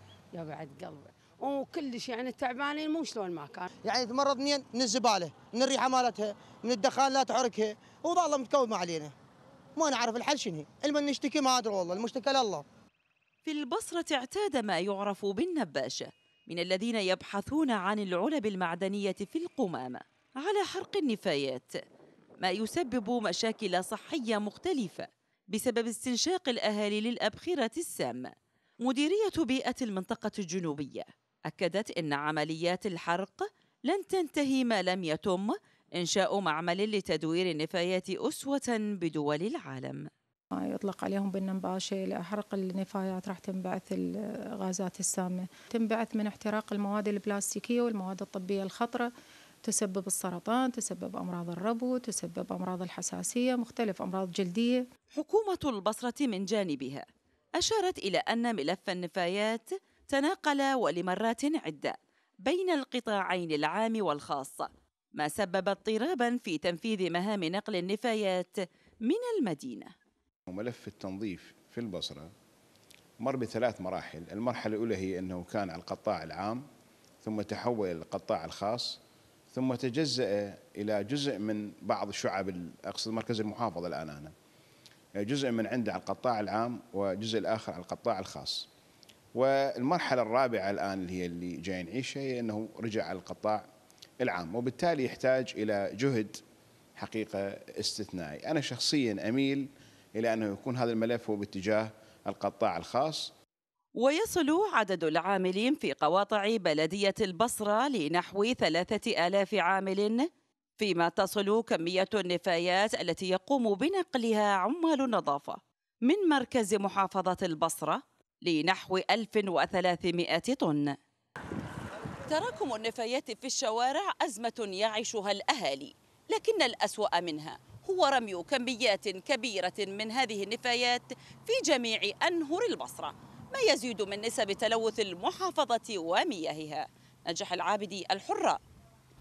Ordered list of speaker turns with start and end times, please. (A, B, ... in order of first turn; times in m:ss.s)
0:00.3-0:03.7 A
0:03.8-0:09.1 B
0:09.8-0:12.6 B
0:13.4-0:21.7 C
0:22.4-0:28.3 C
0:28.8-0:40.1 C
0:40.5-0:49.1 D
0:49.6-0:54.8 D
0:55.2-0:57.0 C
0:57.6-1:09.9 C
1:10.5-1:12.3 E
1:13.2-1:16.6 E
1:17.2-1:19.0 E
1:19.5-1:24.3 E
1:25.2-1:28.7 E
1:29.3-1:33.6 E
1:34.2-1:36.4 E
1:37.0-1:39.6 E
1:40.2-1:43.3 E
1:44.0-1:50.3 C
1:50.8-2:01.0 C
2:02.3-2:18.6 C